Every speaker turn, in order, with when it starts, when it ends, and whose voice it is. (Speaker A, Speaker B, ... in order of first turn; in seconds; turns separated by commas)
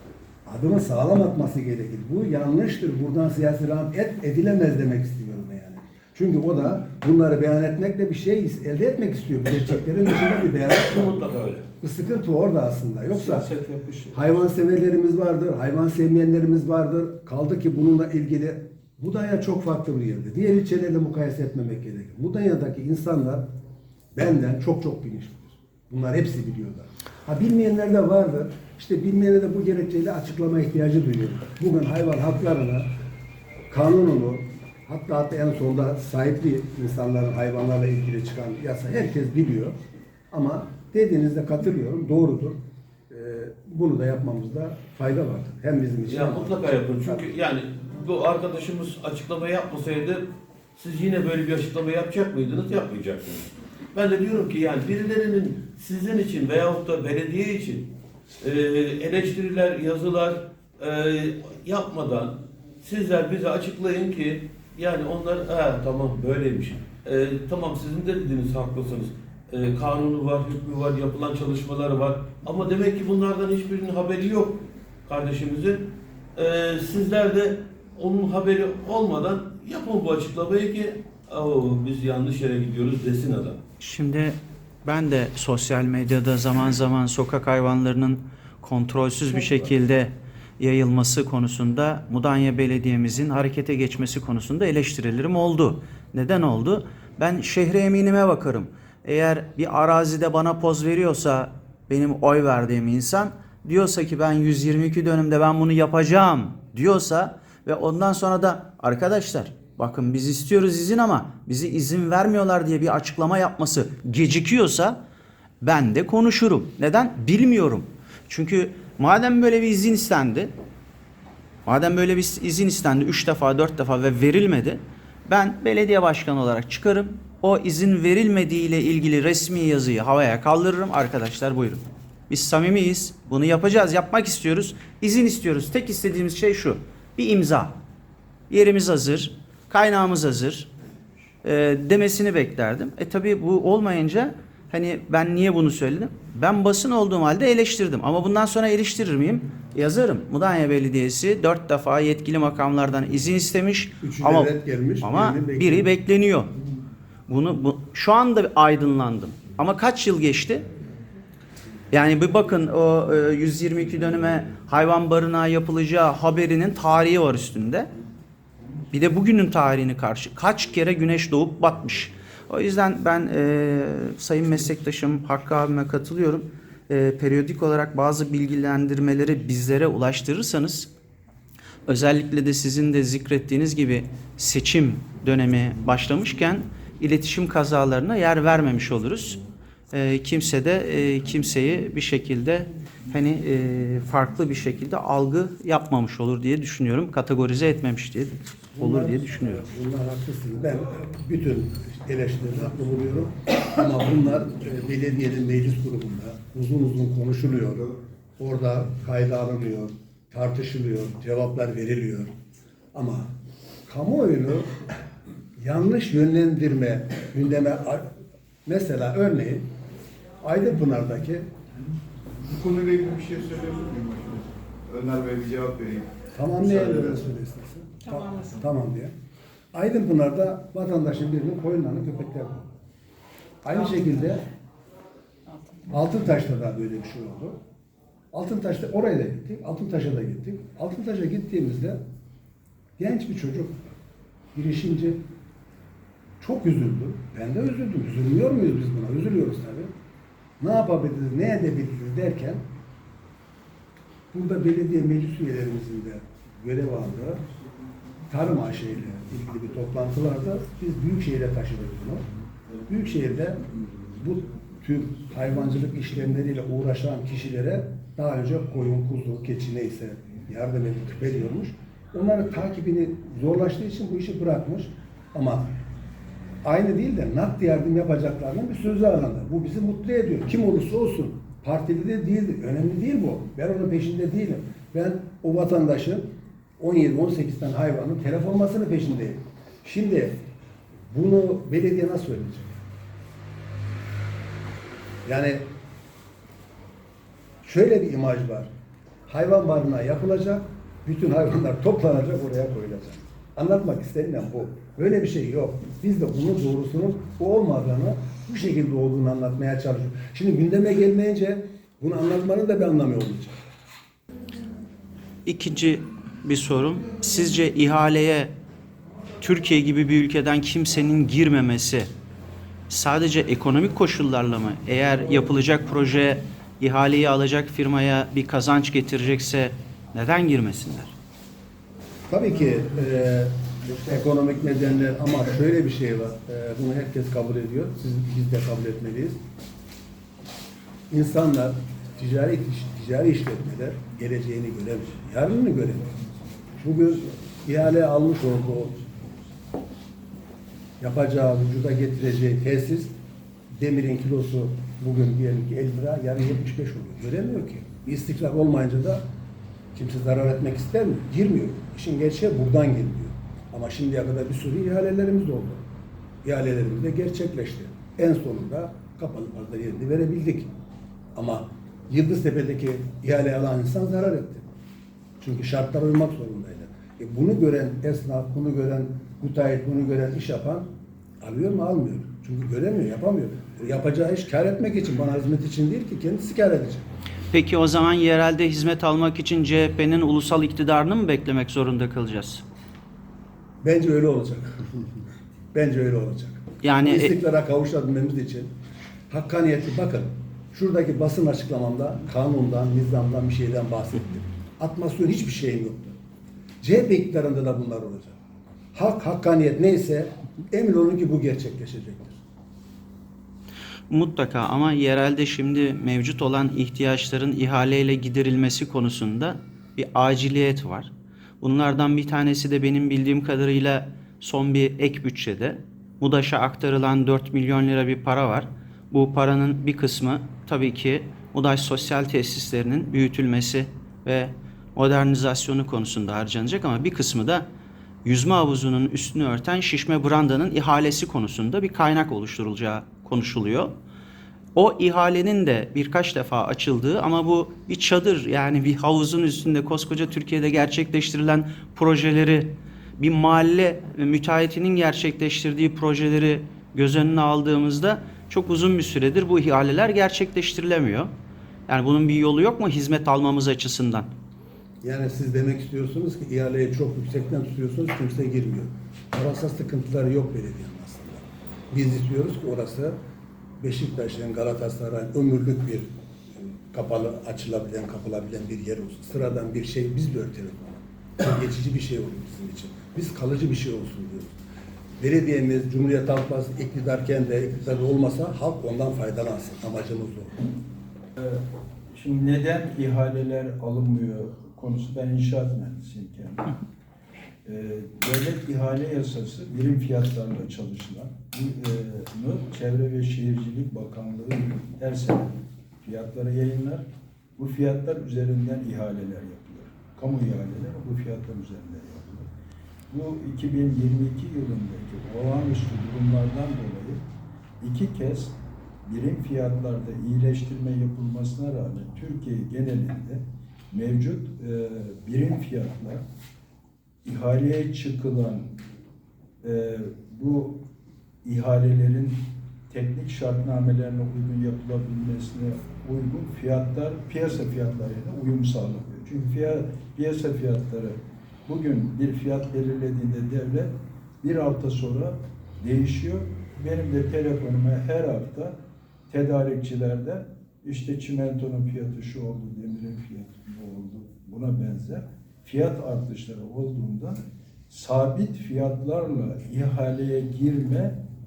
Speaker A: 0.5-11.3, Speaker B: 10.3-11.7, Speaker A: 11.8-13.5, Speaker C: 13.1-14.4, Speaker A: 14.1-23.5, Speaker A: 24.1-32.9, Speaker A: 33.7-39.8, Speaker A: 40.3-47.3, Speaker B: 46.1-83.6, Speaker D: 83.8-115.0, Speaker B: 89.3-89.7, Speaker D: 115.6-120.5, Speaker D: 121.7-137.8, Speaker D: 138.5-140.7, Speaker D: 141.4-156.5, Speaker A: 154.0-155.9, Speaker D: 157.3-160.7, Speaker D: 161.9-167.9, Speaker D: 168.9-180.9, Speaker D: 181.9-199.6, Speaker A: 198.8-212.3, Speaker A: 212.9-213.3, Speaker A: 213.9-214.9, Speaker A: 215.6-218.1, Speaker A: 218.7-219.7, Speaker A: 220.4-221.5, Speaker E: 222.4-227.2, Speaker A: 226.3-229.1, Speaker A: 229.7-232.7, Speaker A: 233.6-234.5, Speaker A: 235.9-237.6, Speaker A: 238.3-242.0, Speaker A: 243.0-244.0, Speaker A: 244.6-245.2, Speaker A: 246.4-249.9, Speaker A: 250.6-252.7, Speaker A: 254.3-257.4, Speaker A: 258.3-262.3, Speaker A: 262.9-275.8, Speaker A: 276.6-290.4, Speaker A: 291.1-292.8, Speaker A: 295.2-295.7, Speaker A: 297.6-298.7, Speaker A: 299.3-313.6, Speaker D: 315.4-318.5, Speaker D: 319.4-322.1, Speaker D: 322.9-331.1, Speaker A: 332.3-339.4, Speaker A: 341.1-346.2, Speaker A: 346.8-349.1, Speaker A: 351.0-353.1, Speaker A: 353.7-359.3, Speaker A: 359.9-365.9, Speaker A: 366.4-370.7, Speaker A: 371.4-374.7, Speaker A: 375.4-380.9, Speaker A: 381.4-387.1, Speaker D: 387.5-392.6, Speaker A: 393.8-394.9, Speaker A: 395.7-398.7, Speaker D: 396.8-397.3, Speaker A: 399.3-406.1, Speaker A: 406.8-408.4, Speaker A: 408.9-412.4, Speaker D: 414.1-437.7, Speaker D: 438.2-443.9, Speaker D: 444.8-461.3, Speaker D: 461.9-464.3, Speaker A: 465.0-473.2, Speaker A: 473.8-484.6, Speaker A: 485.2-490.6, Speaker C: 491.4-496.8, Speaker C: 497.6-512.5, Speaker C: 513.1-517.2, Speaker C: 517.8-526.2, Speaker C: 527.2-528.8, Speaker C: 529.6-530.9, Speaker C: 531.4-548.8, Speaker C: 549.3-561.2